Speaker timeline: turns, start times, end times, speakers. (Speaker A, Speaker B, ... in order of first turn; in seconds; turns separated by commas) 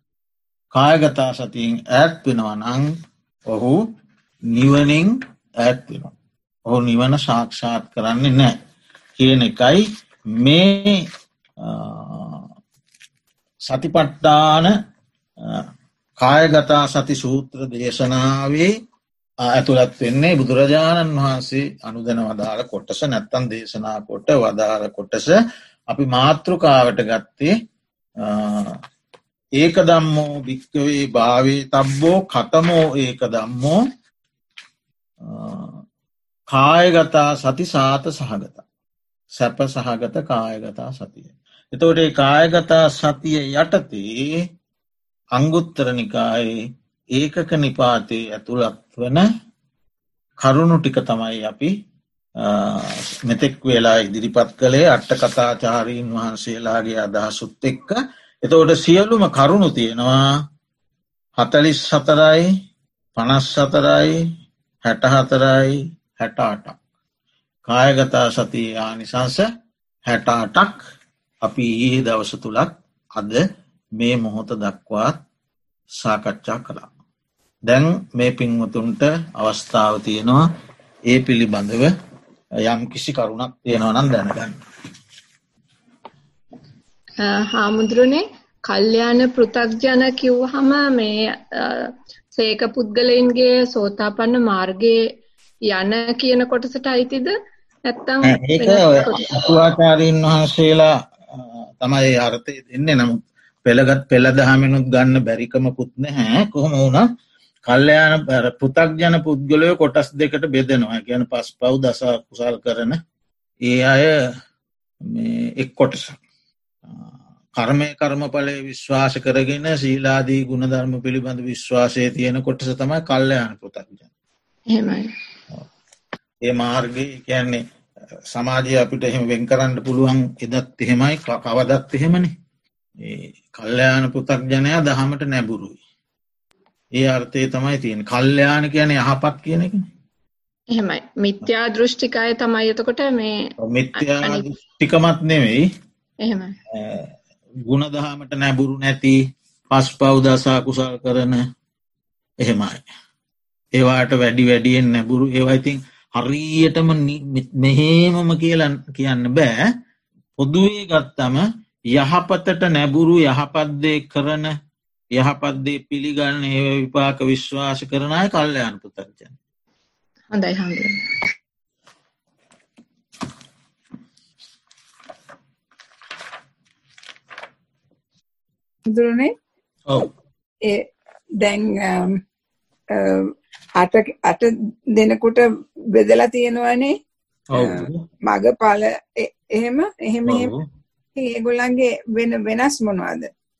Speaker A: 0.7-2.9, Speaker A: 3.5-3.8, Speaker A: 4.5-6.1, Speaker A: 6.7-8.6, Speaker A: 9.2-9.8, Speaker A: 10.4-11.0, Speaker A: 11.6-12.4, Speaker A: 13.7-14.7, Speaker A: 16.2-18.7, Speaker A: 19.4-25.4, Speaker A: 25.9-27.5, Speaker A: 28.2-28.8, Speaker A: 29.6-33.8, Speaker A: 35.2-35.8, Speaker A: 36.5-38.6, Speaker A: 39.4-44.4, Speaker A: 45.3-49.2, Speaker A: 50.4-51.7, Speaker A: 52.4-60.2, Speaker A: 61.4-62.5, Speaker A: 63.1-64.2, Speaker A: 64.8-66.8, Speaker A: 67.7-69.5, Speaker A: 70.1-70.8, Speaker A: 71.4-73.4, Speaker A: 74.0-75.2, Speaker A: 76.0-76.9, Speaker A: 77.7-80.4, Speaker A: 81.1-81.9, Speaker A: 82.6-84.6, Speaker B: 87.2-95.0, Speaker B: 95.7-97.3, Speaker B: 97.9-99.3, Speaker A: 98.2-107.1, Speaker A: 107.7-113.0, Speaker A: 113.6-114.2, Speaker A: 115.0-116.2, Speaker A: 116.9-124.0, Speaker B: 124.7-125.1, Speaker A: 126.4-127.6, Speaker A: 128.3-132.3, Speaker A: 133.0-135.8, Speaker A: 136.9-139.8, Speaker B: 140.7-144.4, Speaker A: 143.6-145.7, Speaker B: 146.2-146.5, Speaker A: 146.7-147.1, Speaker A: 147.7-151.4, Speaker A: 152.4-152.8, Speaker A: 153.7-159.7, Speaker A: 160.4-164.5, Speaker A: 165.1-169.3, Speaker B: 170.3-171.1, Speaker C: 178.9-179.3, Speaker C: 181.4-182.2, Speaker C: 182.9-186.9, Speaker A: 187.5-188.0, Speaker C: 187.6-190.5, Speaker A: 190.2-190.6, Speaker C: 191.1-193.3